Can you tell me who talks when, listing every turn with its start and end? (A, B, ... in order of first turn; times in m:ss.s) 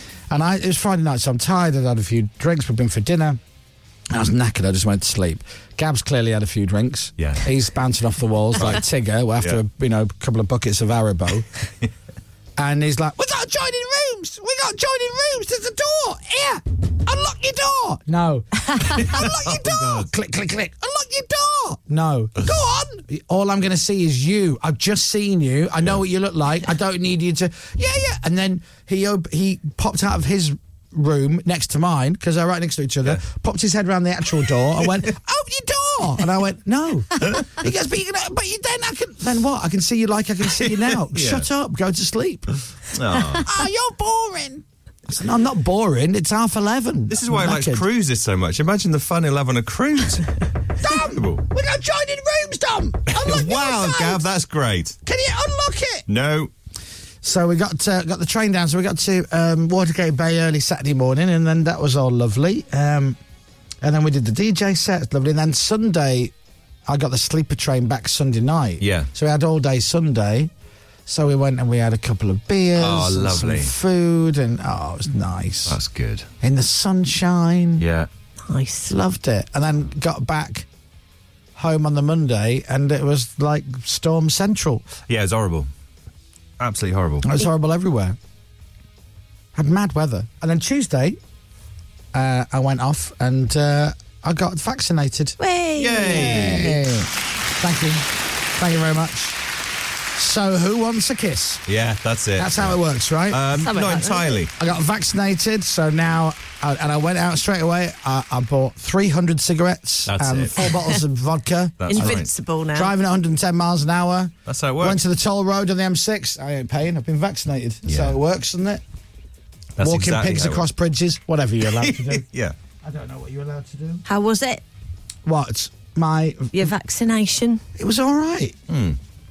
0:00.3-0:03.4 A
0:04.1-0:11.4 A
0:07.2-0:07.5 B
0:08.6-0:08.8 B
0:12.6-0:42.5 A
0:18.9-0:20.0 B
0:40.6-0:41.5 B
0:42.9-0:43.6 B
0:43.3-0:47.8 A
0:47.1-0:50.3 B
0:50.8-0:54.2 A
0:50.9-0:51.4 B
0:53.1-0:55.0 B
0:55.0-0:56.0 A
0:56.1-0:56.5 B
0:57.2-1:03.2 A
1:03.8-1:06.3 A
1:06.9-1:10.5 A
1:08.8-1:09.1 B
1:11.0-1:15.8 A
1:12.8-1:13.7 B
1:15.6-1:16.3 B
1:16.4-1:17.8 A
1:17.8-1:18.1 B
1:18.4-1:18.9 C
1:18.9-1:20.7 A
1:21.6-1:24.8 A
1:25.1-1:25.7 B
1:26.6-1:27.3 B
1:27.2-1:28.2 A
1:29.5-1:31.2 A
1:32.1-1:35.4 A
1:35.4-1:36.7 C
1:35.8-1:36.7 B
1:36.0-1:39.4 A
1:40.2-1:41.6 A
1:41.7-1:42.8 B
1:42.4-1:43.4 A
1:43.3-1:44.5 B
1:43.6-1:44.4 C
1:44.6-1:58.8 A
1:50.1-1:50.6 B
1:51.8-1:52.3 B
1:51.9-1:52.9 C
1:54.5-1:55.0 B
1:57.8-1:58.2 B
1:59.8-2:00.7 B
1:59.8-2:02.2 A
2:01.7-2:02.5 B
2:02.8-2:04.0 A
2:04.0-2:04.6 C
2:05.2-2:06.7 A
2:06.5-2:07.6 C
2:07.8-2:08.6 A
2:08.7-2:09.0 B